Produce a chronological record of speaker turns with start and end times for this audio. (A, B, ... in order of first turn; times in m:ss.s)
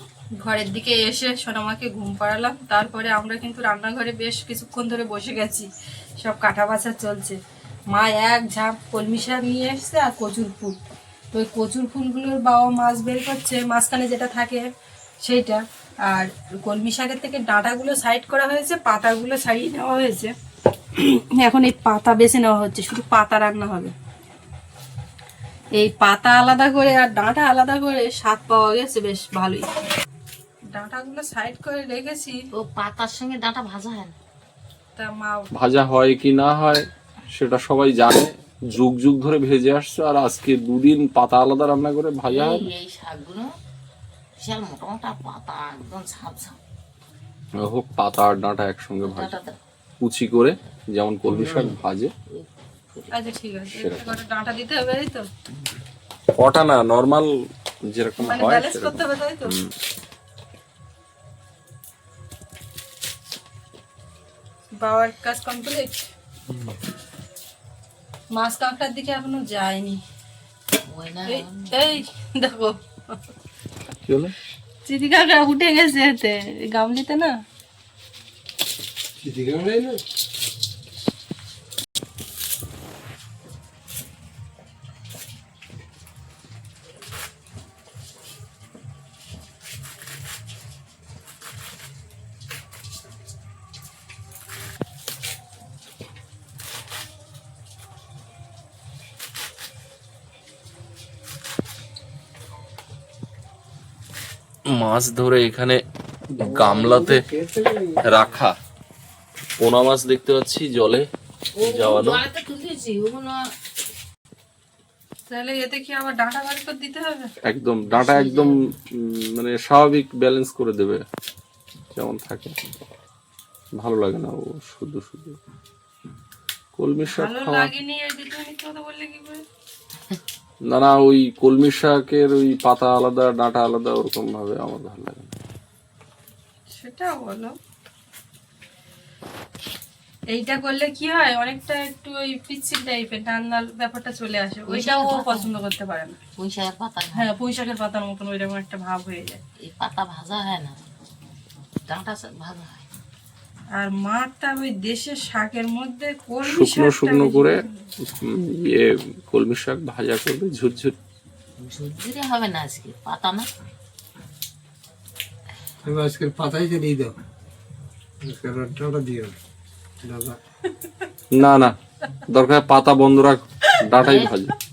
0:00.4-0:05.7 A
0:06.2-0:07.4 A
0:07.9-0:10.8 A
0:11.3-0:14.7 A
0:15.2-0:20.3 A
0:21.0-0:23.9 A
0:25.8-0:29.8 A
0:30.7-0:32.4 A
0:32.5-0:34.2 B
0:35.0-0:35.5 A
0:35.5-0:36.8 C
0:37.4-0:42.7 C
0:42.3-0:43.5 B
0:44.4-0:46.6 B
0:47.6-0:49.3 C
0:49.0-0:49.6 B
0:50.0-0:52.1 C
0:51.3-0:51.8 D
0:52.3-0:53.2 B
0:53.1-0:55.3 A
0:53.7-0:54.0 C
0:56.4-0:57.3 C
0:57.9-0:59.7 C
0:58.2-0:59.6 A
1:04.8-1:06.1 A
1:06.5-1:06.8 D
1:08.3-1:10.0 A
1:10.8-1:12.0 B
1:11.3-1:13.2 A
1:14.1-1:14.3 C
1:14.9-1:17.3 A
1:19.2-1:20.0 D
1:44.7-1:45.8 C
1:46.4-1:48.2 D
1:46.4-1:47.2 C
1:48.0-1:48.6 C
1:49.6-1:51.0 C
1:51.6-1:53.5 B
1:51.6-1:52.2 C
1:55.3-1:57.3 A
1:57.4-2:01.0 C
1:57.9-1:58.6 B
2:02.0-2:02.6 C
2:03.8-2:05.4 C
2:06.8-2:07.7 C
2:07.1-2:09.4 A
2:10.7-2:15.3 C
2:16.7-2:17.6 A
2:20.3-2:26.2 A
2:24.7-2:25.5 B
2:26.4-2:27.3 B
2:27.2-2:29.4 A
2:29.6-2:30.8 B
2:31.9-2:32.8 B
2:33.8-2:37.7 A
2:36.5-2:41.0 C
2:41.6-2:43.5 B
2:45.8-2:47.1 D
2:48.2-2:49.4 D
2:50.0-2:50.4 D
2:51.3-2:51.8 C
2:52.3-2:54.5 C
2:54.0-2:54.4 B